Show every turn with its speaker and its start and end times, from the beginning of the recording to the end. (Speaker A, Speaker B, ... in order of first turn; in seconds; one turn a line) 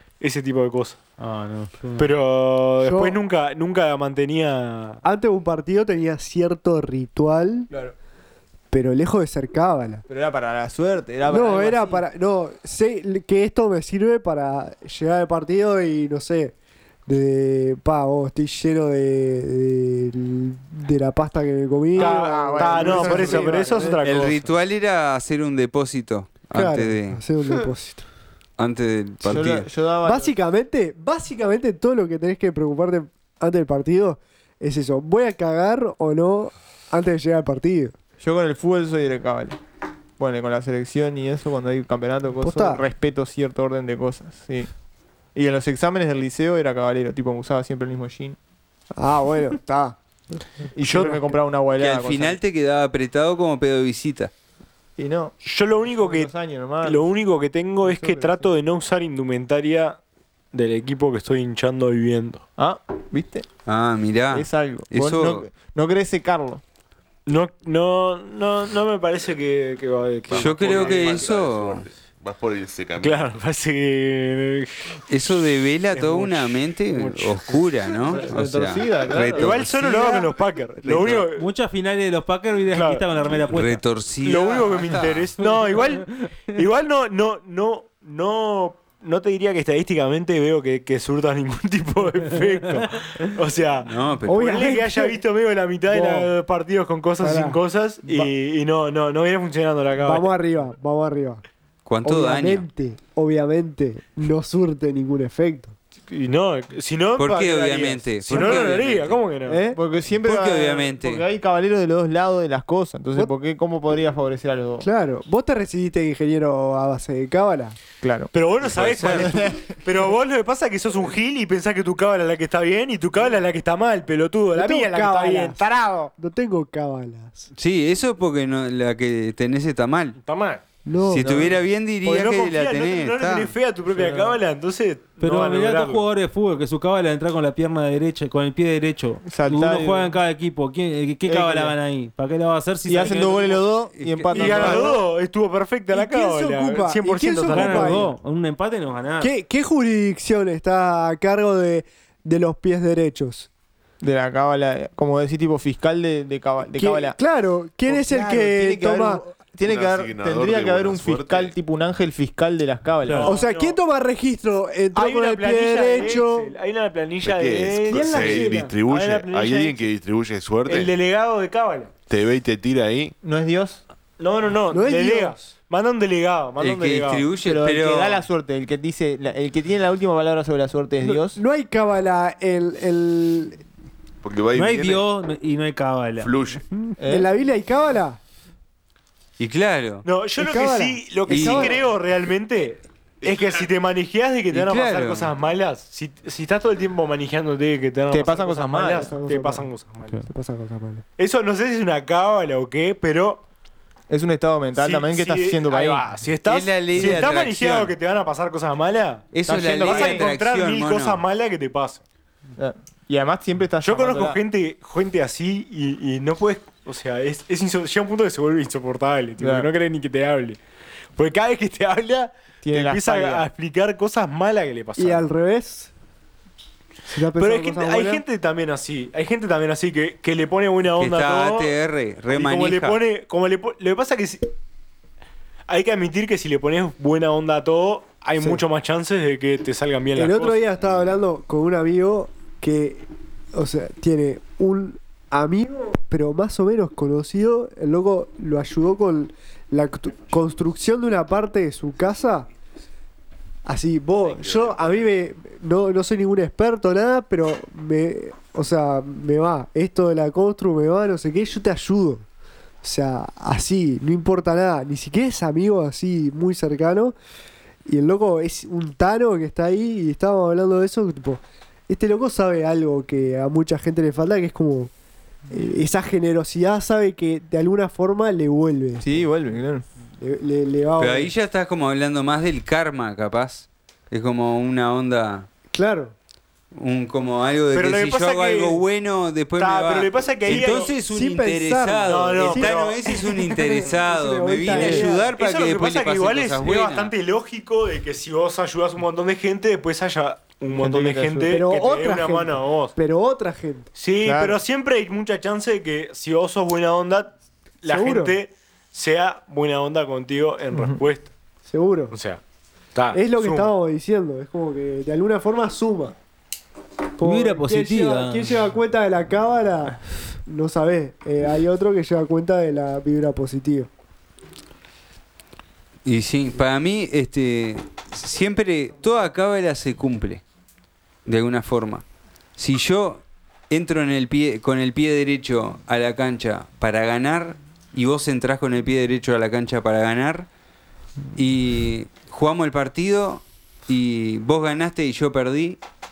Speaker A: 0.2-1.0
Speaker B: 1.2-2.1
Speaker A: 2.0-5.0
Speaker C: 2.8-3.2
Speaker C: 5.0-7.7
Speaker C: 8.7-10.0
Speaker D: 10.1-12.1
Speaker C: 11.3-16.5
Speaker C: 17.1-24.0
Speaker D: 21.9-23.8
Speaker A: 22.0-24.5
Speaker E: 24.0-27.2
Speaker C: 26.5-28.1
Speaker E: 28.6-29.7
Speaker D: 29.2-30.4
Speaker C: 30.0-38.0
Speaker D: 38.2-39.6
Speaker D: 40.2-44.7
Speaker C: 42.4-42.9
Speaker D: 45.4-48.4
Speaker C: 49.0-50.0
Speaker D: 50.7-52.4
Speaker A: 50.9-51.2
Speaker E: 51.8-54.3
Speaker D: 55.0-57.0
Speaker A: 55.4-56.3
Speaker A: 56.8-60.0
Speaker D: 57.8-58.5
Speaker A: 60.5-62.4
Speaker D: 62.6-63.5
Speaker E: 63.7-65.5
Speaker D: 64.3-66.6
Speaker A: 67.3-71.3
Speaker F: 70.3-73.3
Speaker E: 70.3-71.9
Speaker A: 73.0-75.0
Speaker E: 75.1-80.3
Speaker A: 75.9-78.2
Speaker D: 78.1-79.6
Speaker A: 79.3-81.5
Speaker E: 80.8-81.2
Speaker B: 81.3-83.8
Speaker A: 82.7-83.0
Speaker E: 83.4-85.3
Speaker A: 84.2-100.3
Speaker E: 93.8-94.5
Speaker C: 94.3-95.2
Speaker C: 95.9-96.3
Speaker C: 97.2-98.3
Speaker C: 100.0-101.4
Speaker E: 101.8-102.7
Speaker C: 102.0-105.7
Speaker A: 106.1-109.6
Speaker E: 107.2-109.2
Speaker D: 108.3-108.6
Speaker C: 109.5-109.8
Speaker D: 109.7-114.9
Speaker E: 110.2-111.2
Speaker C: 114.8-117.8
Speaker D: 118.0-118.3
Speaker A: 118.3-126.1
Speaker E: 118.8-119.3
Speaker D: 118.8-119.7
Speaker C: 124.5-125.6
Speaker C: 126.2-127.5
Speaker E: 127.5-130.2
Speaker A: 130.2-130.6
Speaker C: 130.8-131.5
Speaker E: 131.1-133.5
Speaker D: 131.2-131.6
Speaker A: 132.0-136.0
Speaker D: 133.9-134.3
Speaker B: 135.2-143.8
Speaker D: 139.2-140.2
Speaker D: 141.3-141.8
Speaker D: 142.8-145.0
Speaker E: 144.0-144.8
Speaker A: 144.3-148.1
Speaker C: 144.3-145.0
Speaker C: 145.9-148.2
Speaker B: 147.5-149.3
Speaker C: 149.2-153.5
Speaker D: 154.0-157.2
Speaker C: 156.8-159.3
Speaker D: 157.9-163.4
Speaker F: 159.6-161.6
Speaker A: 163.1-163.8
Speaker C: 163.2-166.5
Speaker A: 164.9-169.9
Speaker F: 167.2-170.9
Speaker C: 167.9-168.7
Speaker A: 170.7-171.9
Speaker F: 172.1-173.1
Speaker D: 173.2-173.8
Speaker A: 174.2-177.2
Speaker C: 174.7-175.4
Speaker E: 176.6-178.2
Speaker D: 177.4-181.4
Speaker C: 181.0-183.6
Speaker F: 184.2-185.1
Speaker B: 184.6-186.4
Speaker F: 186.2-186.6
Speaker D: 187.0-187.3
Speaker C: 187.1-188.2
Speaker E: 189.4-190.1
Speaker A: 190.0-200.2
Speaker C: 190.4-191.8
Speaker E: 191.3-191.8
Speaker F: 193.2-193.5
Speaker E: 194.5-195.3
Speaker D: 198.1-199.1
Speaker C: 199.1-199.7
Speaker C: 200.3-201.0
Speaker A: 201.2-203.4
Speaker D: 204.1-206.1
Speaker A: 204.8-212.0
Speaker E: 206.5-207.9
Speaker E: 209.3-211.2
Speaker D: 209.4-210.3
Speaker D: 212.6-214.4
Speaker A: 213.8-220.6
Speaker D: 219.4-219.7
Speaker A: 221.2-225.3
Speaker D: 222.6-223.5
Speaker C: 225.0-225.9
Speaker C: 227.1-228.2
Speaker A: 227.4-231.8
Speaker E: 231.0-233.0
Speaker A: 232.3-234.5
Speaker A: 235.7-240.6
Speaker C: 240.2-252.5
Speaker C: 253.7-262.2
Speaker F: 254.4-254.9
Speaker C: 262.8-267.1
Speaker C: 267.9-274.9
Speaker C: 275.5-279.2
Speaker D: 279.0-279.9
Speaker C: 280.2-281.3
Speaker E: 281.0-285.5
Speaker C: 285.7-286.1
Speaker E: 286.7-297.1
Speaker A: 287.7-288.8
Speaker A: 289.6-290.9
Speaker C: 290.5-295.3
Speaker A: 292.1-293.2
Speaker D: 294.7-295.1
Speaker A: 294.8-302.9
Speaker D: 300.7-301.6
Speaker C: 301.5-303.9
Speaker A: 304.0-311.3
Speaker D: 304.2-304.6
Speaker C: 307.9-308.4
Speaker D: 310.7-311.0
Speaker C: 311.7-312.1
Speaker A: 312.1-312.4
Speaker A: 312.9-313.7
Speaker C: 313.1-316.1
Speaker C: 317.2-323.9
Speaker B: 317.2-318.6
Speaker E: 326.1-330.4
Speaker E: 331.3-332.0
Speaker E: 332.6-340.5
Speaker E: 341.4-345.8